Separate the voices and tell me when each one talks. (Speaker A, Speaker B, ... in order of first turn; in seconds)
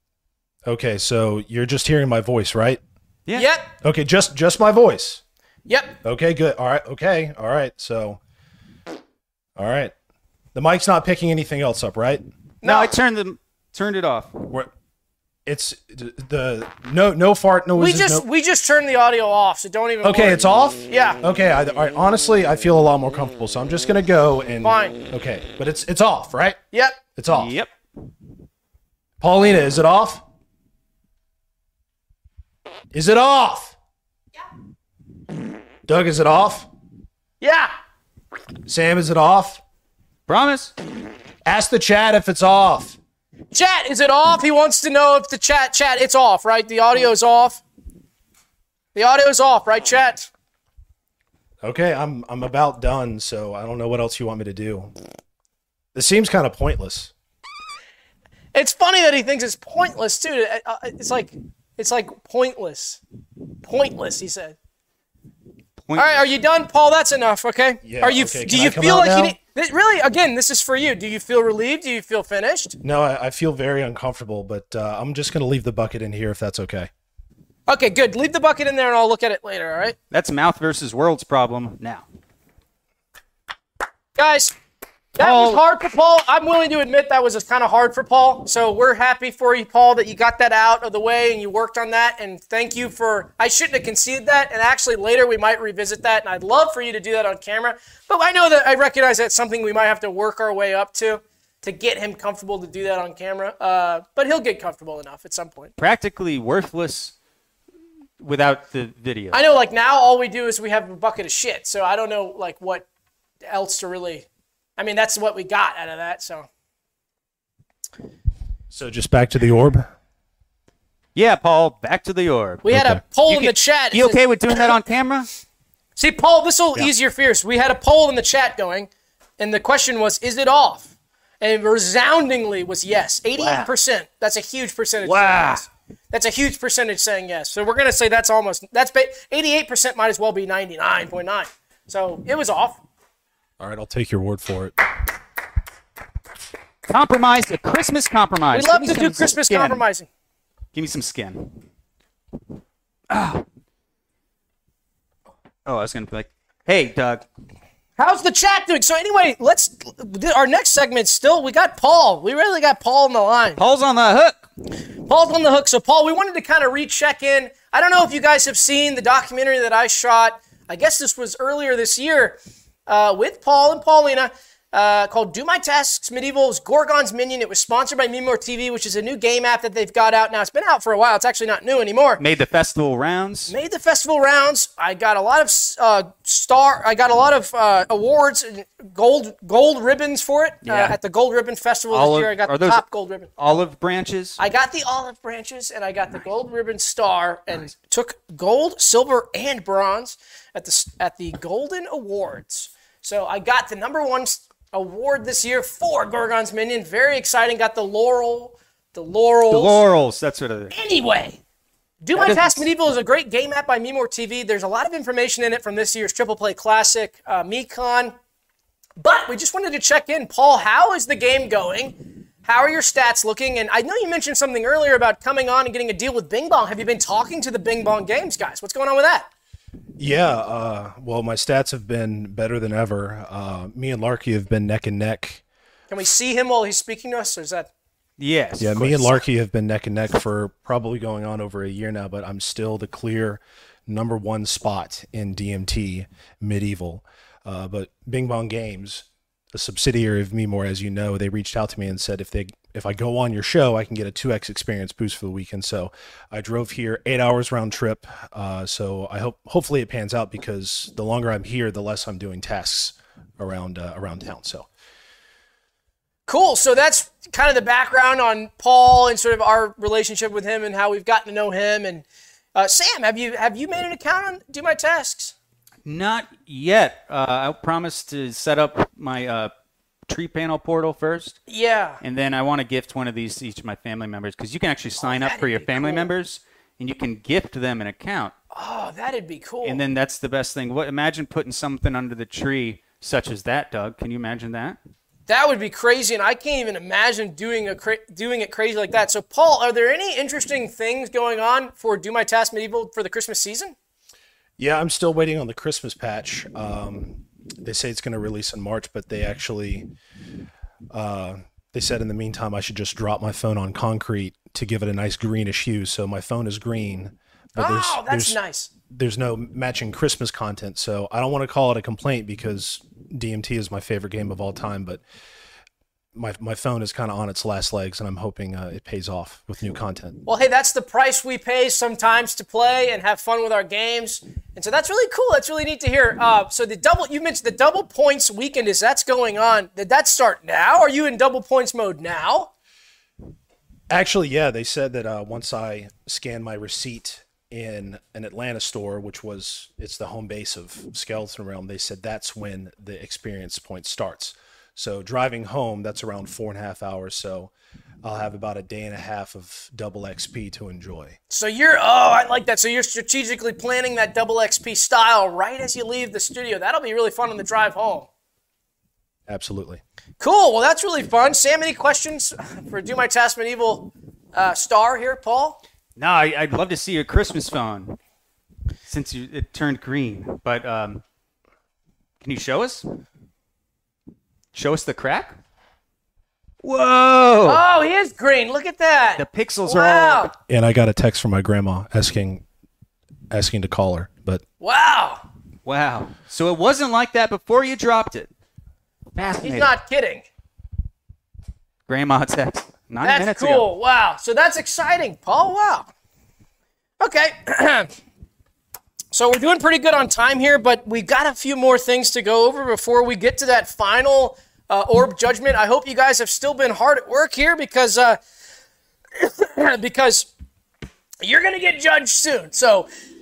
Speaker A: 0.7-2.8, 3.8-5.2, 6.0-8.2, 9.6-9.9, 10.6-12.2, 15.5-18.2, 20.0-26.6, 27.2-27.5, 29.2-30.2, 32.9-33.8, 35.9-36.7, 38.7-39.6, 41.5-43.0, 51.6-54.9, 55.9-57.1, 67.8-69.4, 72.8-76.9, 118.7-119.9, 122.7-123.0, 135.3-135.6, 143.6-144.9, 230.0-235.4, 238.6-264.7, 304.6-309.9, 310.9-325.0, 326.1-330.2, 343.9-357.5, 358.0-361.2, 369.3-369.8, 390.5-392.4, 393.3-394.4
Speaker B: 3.3-3.7, 5.7-6.0, 12.6-12.9, 17.8-21.2, 24.6-25.0, 26.7-27.0, 37.4-37.7, 43.5-47.6, 49.0-50.3, 58.5-63.0, 63.6-64.6, 66.0-72.8, 77.7-80.0, 84.2-84.5, 85.2-105.7, 109.3-112.8, 113.5-114.3, 114.8-116.5, 122.6-124.7, 126.0-130.9, 131.4-142.8, 148.5-150.1, 158.0-163.6, 165.1-182.2, 183.5-193.3, 194.4-209.8, 210.7-211.4, 212.0-218.2, 219.0-229.3, 235.9-237.7, 266.3-275.4, 281.5-282.0, 285.0-286.1, 288.5-289.8, 295.3-303.8, 317.6-318.7, 330.3-342.5, 361.3-368.1, 370.2-375.6, 387.4-390.3, 394.6-395.2, 399.4-400.3, 403.0-405.9, 407.0-407.9, 409.1-418.2, 419.2-420.3, 421.2-422.9
Speaker C: 12.6-14.5, 27.3-27.7, 40.3-40.7, 65.8-66.3, 80.1-82.0, 85.2-85.6, 105.8-107.1, 108.2-109.4, 121.2-122.7, 123.3-125.3, 133.4-133.7, 135.1-135.6, 146.9-149.8, 150.7-151.6, 153.1-153.4, 155.7-157.2, 163.6-164.4, 182.2-183.5, 190.7-191.0, 191.9-192.8, 193.4-194.4, 209.5-210.7, 212.2-212.6, 238.2-239.2, 275.9-279.5, 280.1-281.4, 282.0-288.3, 289.6-294.8, 376.0-378.0, 378.9-381.0, 382.2-382.9, 384.5-385.4, 386.6-387.6, 389.2-390.3, 395.6-398.3, 399.1-399.7, 401.9-403.7